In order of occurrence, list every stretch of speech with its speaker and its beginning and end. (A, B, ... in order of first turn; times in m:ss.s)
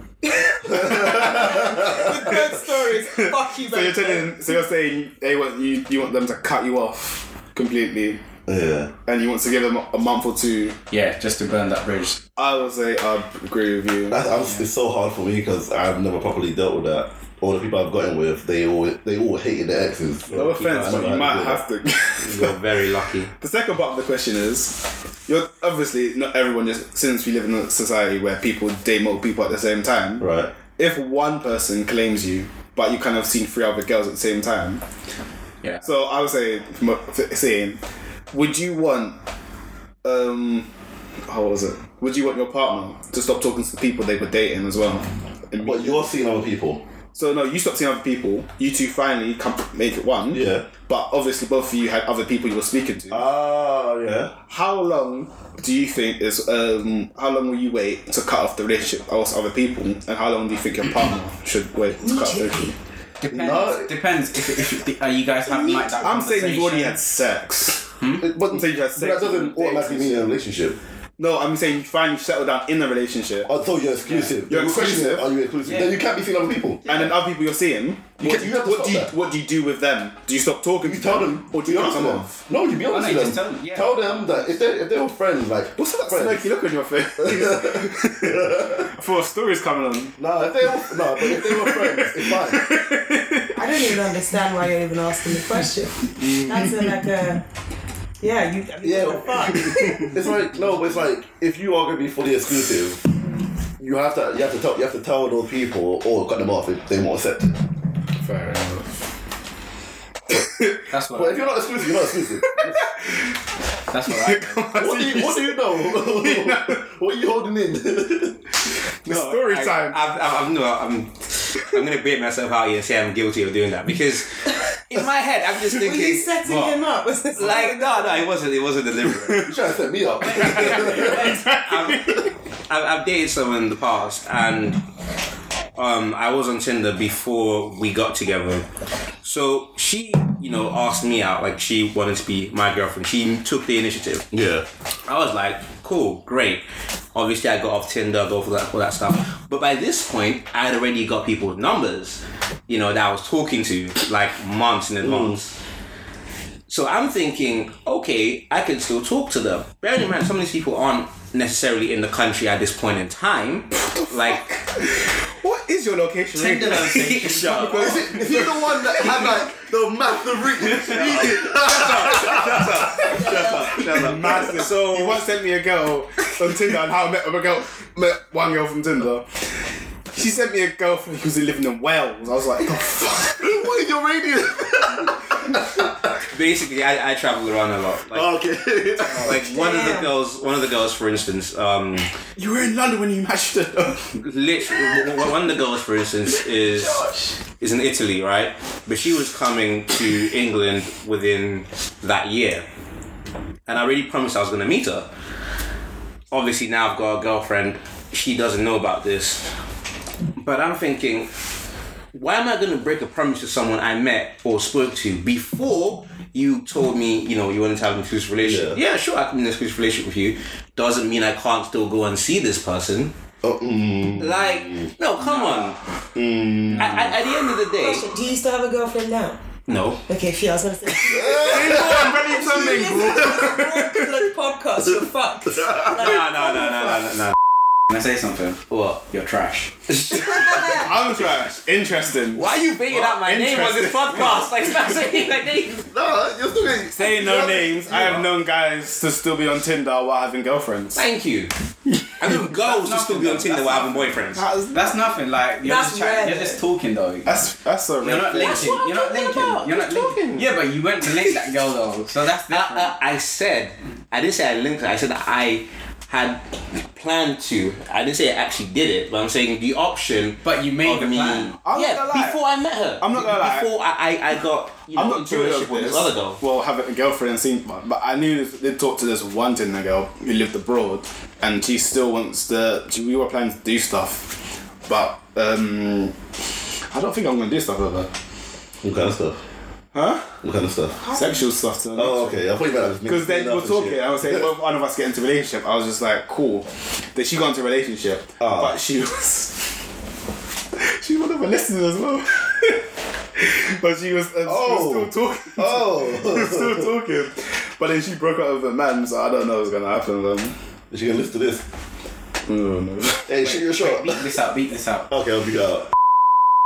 0:00.2-0:04.6 A
0:00.6-0:08.2 B
0:00.9-0:02.0 C
0:08.5-0:08.9 C
0:09.0-0:10.8 B
0:10.9-0:12.2 D
0:12.4-0:14.3 B
0:14.1-0:21.6 C
0:20.3-0:22.6 B
0:20.4-0:21.2 E
0:22.2-0:23.3 E
0:23.4-0:34.8 B
0:30.2-0:30.5 C
0:35.8-0:37.8 B
0:38.3-0:39.2 B
0:40.0-0:40.7 B
0:41.3-0:46.1 B
0:45.6-0:46.8 C
0:47.1-0:53.2 B
0:50.3-0:50.7 C
0:53.1-0:54.4 C
0:54.5-1:02.7 B
1:02.0-1:02.8 A
1:03.2-1:07.0 D
1:03.3-1:03.9 C
1:05.5-1:06.0 A
1:06.0-1:07.9 B
1:08.0-1:08.2 D
1:08.2-1:10.8 C
1:08.5-1:10.3 B
1:11.2-1:13.5 B
1:13.5-1:17.1 C
1:14.0-1:14.3 D
1:14.5-1:15.2 B
1:15.6-1:16.0 D
1:16.9-1:22.4 B
1:18.2-1:19.1 C
1:20.8-1:26.4 C
1:22.9-1:24.6 D
1:25.8-1:34.2 B
1:27.2-1:28.9 C
1:30.2-1:32.8 C
1:33.6-1:37.4 A
1:36.4-1:36.7 B
1:38.2-1:40.1 A
1:38.8-1:43.0 C
1:43.8-1:47.6 C
1:48.2-1:48.9 B
1:50.3-1:50.8 B
1:50.9-1:51.6 D
1:51.1-1:52.8 C
1:52.4-1:52.8 B
1:53.9-1:54.8 D
1:54.2-1:56.8 B
1:54.7-1:58.4 C
1:59.0-2:00.0 B
1:59.1-2:06.8 E
2:05.7-2:08.3 A
2:07.3-2:09.5 E
2:09.3-2:09.6 B
2:09.4-2:11.4 C
2:10.3-2:12.3 B
2:10.4-2:14.8 E
2:15.8-2:18.7 E
2:19.2-2:24.3 E
2:24.3-2:24.7 C
2:25.1-2:35.6 E
2:35.0-2:35.4 C
2:36.7-2:44.6 E
2:43.8-2:49.4 B
2:46.3-2:48.0 D
2:46.9-2:48.2 E
2:47.8-2:54.6 C
2:50.9-2:55.2 E
2:51.0-2:51.4 B
2:53.2-2:53.7 A
2:53.7-2:59.3 B
3:00.1-3:03.6 B
3:03.4-3:06.1 C
3:06.3-3:08.3 E
3:08.1-3:09.5 C
3:09.1-3:12.1 E
3:09.4-3:10.1 A
3:12.4-3:14.1 B
3:14.1-3:17.0 E
3:16.7-3:17.4 A
3:17.6-3:22.7 E
3:23.7-3:25.1 E
3:26.3-3:29.5 E
3:30.4-3:31.3 E
3:32.1-3:43.1 E
3:38.4-3:38.8 C
3:43.4-3:44.9 C
3:44.2-3:45.8 E
3:45.2-3:45.8 D
3:46.2-3:47.4 C
3:46.8-3:48.1 E
3:47.8-3:49.4 A
3:49.7-3:50.0 E
3:50.1-3:57.1 A
3:51.1-3:52.2 C
3:51.4-3:54.1 B
3:54.8-3:55.9 C
3:55.9-3:57.3 E
3:57.9-3:58.6 D
3:58.7-3:59.0 E
3:59.1-3:59.7 D
3:59.9-4:00.9 E
4:00.1-4:00.9 A
4:00.4-4:04.5 B
4:02.4-4:05.8 E
4:05.8-4:08.3 C
4:06.9-4:11.0 B
4:10.9-4:11.5 E
4:12.2-4:14.4 E
4:12.6-4:17.4 D
4:14.3-4:15.0 B
4:15.6-4:16.6 A
4:17.3-4:18.8 B
4:18.0-4:22.9 D
4:18.4-4:20.2 A
4:19.7-4:20.4 B
4:22.5-4:36.4 E
4:30.4-4:31.5 D
4:31.6-4:32.4 B
4:33.0-4:33.7 B
4:34.9-4:46.2 B
4:46.9-4:48.1 B
4:48.8-4:49.4 C
4:49.9-4:50.4 B
4:50.4-4:51.1 C
4:51.0-4:52.4 B
4:52.0-4:54.5 C
4:53.0-4:59.7 B
4:58.4-4:58.8 C
5:00.8-5:10.6 B
5:04.4-5:06.9 C
5:10.9-5:11.6 C
5:12.5-5:13.4 B
5:13.3-5:14.2 C
5:13.5-5:15.1 D
5:15.1-5:15.9 C